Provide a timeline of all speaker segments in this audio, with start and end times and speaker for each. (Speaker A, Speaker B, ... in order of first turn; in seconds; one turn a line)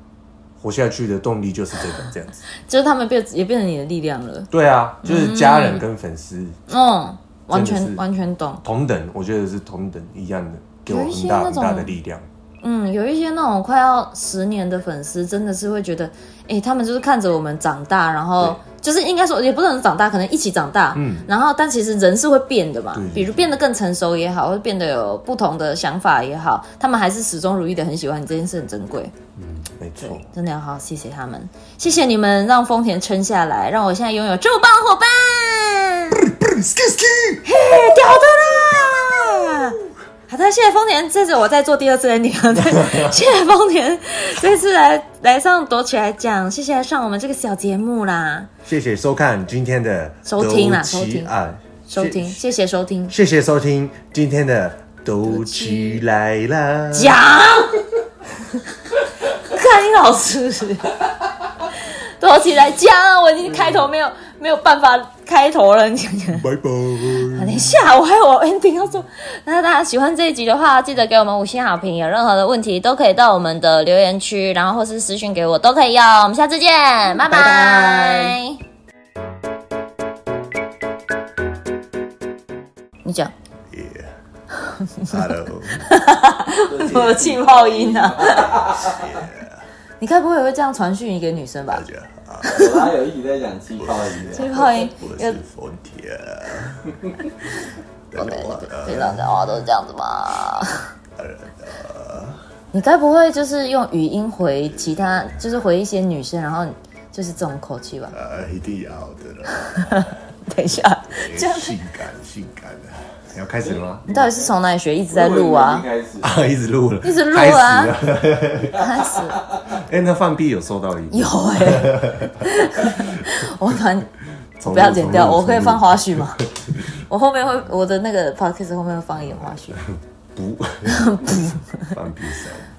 Speaker A: 0.6-2.5
Speaker B: 2.6-4.5
Speaker A: 4.5-6.6
Speaker B: 5.0-5.8
Speaker B: 6.7-8.6
Speaker A: 7.5-8.0
Speaker A: 8.6-12.2
Speaker B: 10.9-11.9
Speaker B: 12.6-29.1
Speaker A: 20.9-21.3
Speaker A: 22.9-23.4
Speaker A: 29.4-30.2
Speaker B: 30.0-36.2
Speaker A: 36.3-37.5
Speaker B: 37.4-48.5
Speaker A: 42.6-43.1
Speaker A: 48.6-52.3
Speaker B: 50.2-51.3
Speaker B: 51.9-53.1
Speaker A: 53.1-57.1
Speaker B: 55.2-56.0
Speaker B: 56.9-57.8
Speaker B: 59.4-60.9
Speaker B: 61.9-66.5
Speaker A: 66.4-67.6
Speaker B: 67.3-78.6
Speaker B: 83.0-83.3
Speaker A: 83.7-84.1
Speaker B: 84.6-85.2
Speaker A: 85.0-85.9
Speaker B: 85.8-88.8
Speaker C: 86.7-89.1
Speaker A: 88.8-89.6
Speaker B: 90.0-91.8
Speaker A: 91.7-92.6
Speaker C: 92.4-94.5
Speaker A: 93.8-96.9
Speaker B: 94.3-95.4
Speaker A: 98.1-99.3
Speaker B: 98.1-100.9
Speaker A: 101.2-102.4
Speaker B: 102.7-108.1
Speaker A: 108.1-110.1
Speaker B: 109.5-111.8
Speaker A: 111.1-114.2
Speaker B: 114.1-115.9
Speaker C: 115.1-116.3
Speaker A: 116.2-118.8
Speaker B: 117.0-117.9
Speaker B: 118.8-119.4
Speaker C: 118.8-119.4
Speaker A: 119.7-122.5
Speaker B: 121.1-124.1
Speaker A: 123.0-123.2
Speaker A: 124.6-126.9
Speaker B: 124.6-126.4
Speaker B: 127.1-129.8
Speaker A: 129.2-132.7
Speaker B: 130.8-131.9